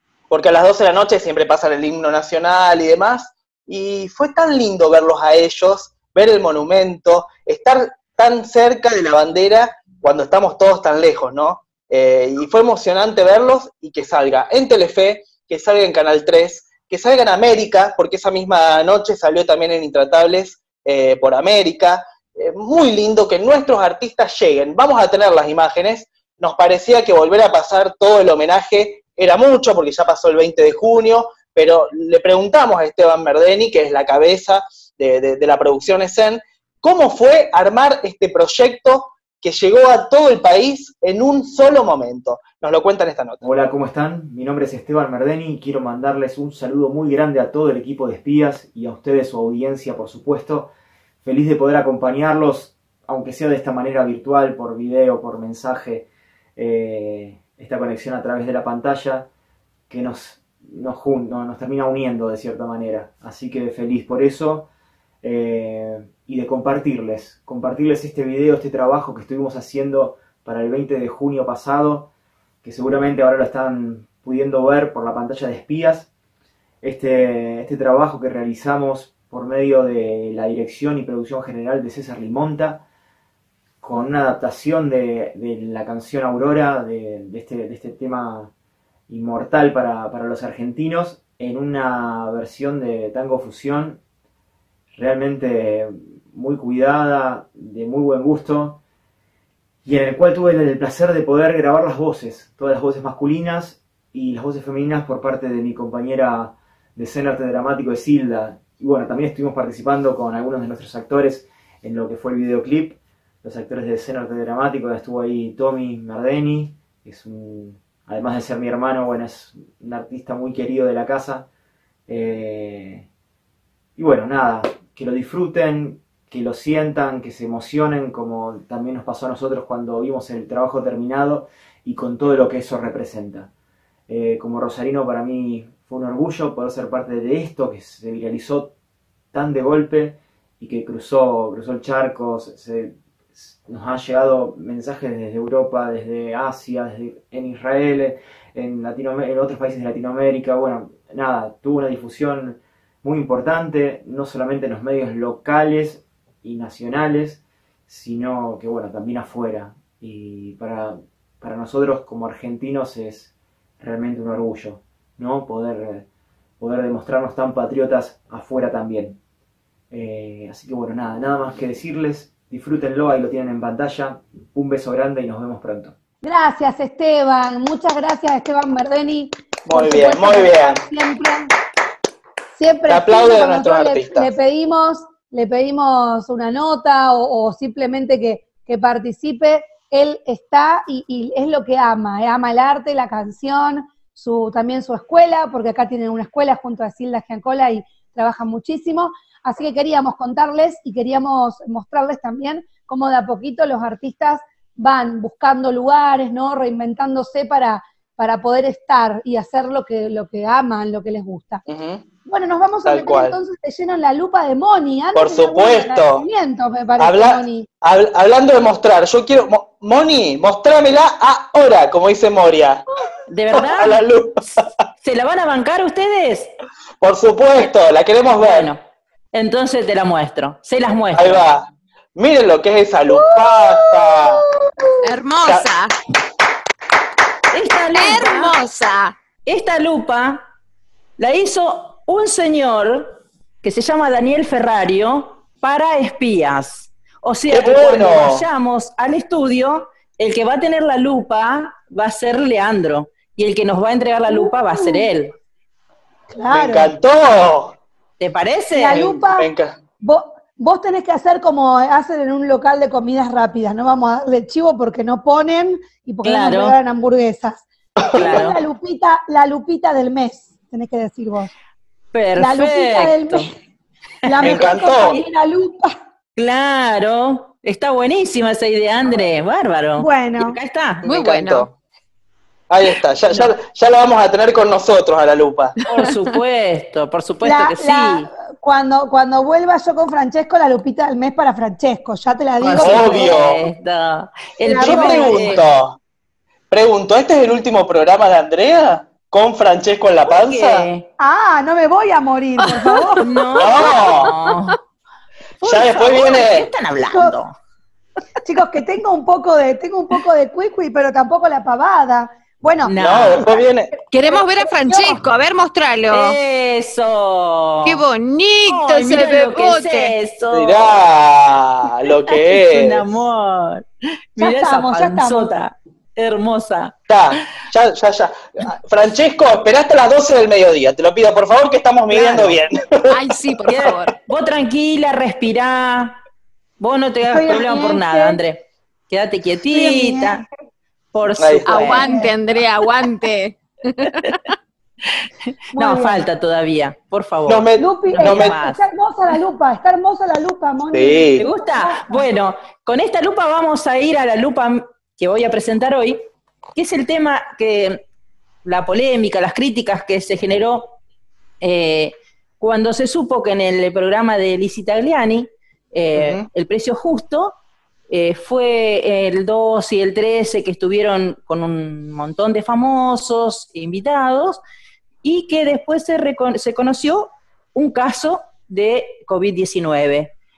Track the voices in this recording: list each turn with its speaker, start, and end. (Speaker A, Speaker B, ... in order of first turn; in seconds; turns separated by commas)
Speaker A: 0.3-43.4, Speaker B: 43.4-50.7, Speaker B: 51.2-59.3, Speaker B: 59.9-64.7, Speaker B: 65.2-72.1, Speaker B: 72.6-76.1, Speaker B: 76.8-82.8, Speaker B: 83.8-88.5, Speaker B: 89.1-94.0, Speaker B: 94.9-98.8, Speaker B: 99.8-121.5, Speaker B: 122.1-123.1, Speaker B: 124.0-133.5, Speaker B: 134.1-138.7, Speaker B: 139.3-166.1, Speaker B: 166.6-169.2, Speaker B: 169.9-175.9, Speaker C: 176.2-181.5, Speaker A: 179.7-180.8, Speaker C: 182.6-211.6, Speaker A: 182.9-184.3, Speaker A: 211.7-212.0, Speaker C: 212.3-217.7, Speaker A: 212.8-213.4, Speaker A: 215.2-216.2, Speaker A: 217.0-222.8, Speaker D: 223.3-224.0, Speaker A: 223.5-224.7, Speaker D: 225.0-226.5, Speaker A: 227.0-228.7, Speaker D: 228.3-228.8, Speaker D: 229.3-231.4, Speaker A: 231.1-234.4, Speaker C: 233.1-234.9, Speaker E: 235.0-236.0, Speaker D: 237.5-238.5, Speaker E: 237.9-239.2, Speaker D: 239.4-240.4, Speaker D: 241.2-255.3, Speaker A: 247.5-248.4, Speaker C: 254.3-255.1, Speaker C: 256.3-256.9, Speaker A: 256.5-257.8, Speaker D: 258.2-259.3, Speaker C: 258.7-259.5, Speaker A: 259.0-259.7, Speaker C: 260.0-271.5, Speaker D: 266.2-266.8, Speaker A: 268.0-268.4, Speaker D: 268.1-268.6, Speaker D: 272.1-273.5, Speaker C: 272.4-273.5, Speaker D: 274.2-274.7, Speaker C: 274.3-276.0, Speaker A: 274.4-275.2, Speaker D: 276.4-281.0, Speaker C: 280.0-280.6, Speaker E: 281.0-281.7, Speaker A: 281.1-281.7, Speaker A: 282.7-285.7, Speaker E: 285.9-286.4, Speaker D: 285.9-288.3, Speaker C: 287.4-293.6, Speaker D: 292.6-295.6, Speaker A: 292.8-293.6, Speaker C: 294.6-295.6, Speaker A: 294.7-296.0, Speaker A: 296.7-300.9, Speaker D: 300.3-301.1, Speaker C: 301.2-303.2, Speaker E: 302.7-303.2, Speaker D: 303.2-304.8, Speaker A: 303.6-304.4, Speaker A: 305.6-306.7, Speaker D: 305.7-307.6, Speaker C: 307.1-307.4, Speaker C: 308.4-315.2, Speaker D: 312.8-313.5, Speaker A: 313.0-313.9, Speaker E: 314.1-316.4, Speaker D: 316.1-318.0, Speaker E: 317.9-320.1, Speaker D: 318.7-321.0, Speaker A: 320.5-323.2, Speaker D: 322.0-326.9, Speaker C: 324.4-325.5, Speaker A: 327.1-334.0, Speaker C: 332.1-332.6, Speaker E: 333.1-334.1, Speaker D: 333.7-336.2, Speaker D: 336.8-340.4, Speaker C: 337.2-338.4, Speaker C: 339.7-340.4, Speaker D: 341.1-342.2, Speaker A: 341.4-342.0, Speaker E: 341.6-344.5, Speaker C: 341.9-342.3, Speaker D: 345.8-348.8, Speaker C: 345.8-346.2, Speaker A: 347.5-348.6, Speaker C: 347.8-352.3, Speaker A: 350.9-351.5, Speaker D: 351.4-356.2, Speaker D: 356.8-358.0, Speaker D: 358.6-361.0, Speaker D: 361.6-367.6, Speaker A: 366.1-366.5, Speaker D: 368.1-374.6, Speaker D: 375.2-380.3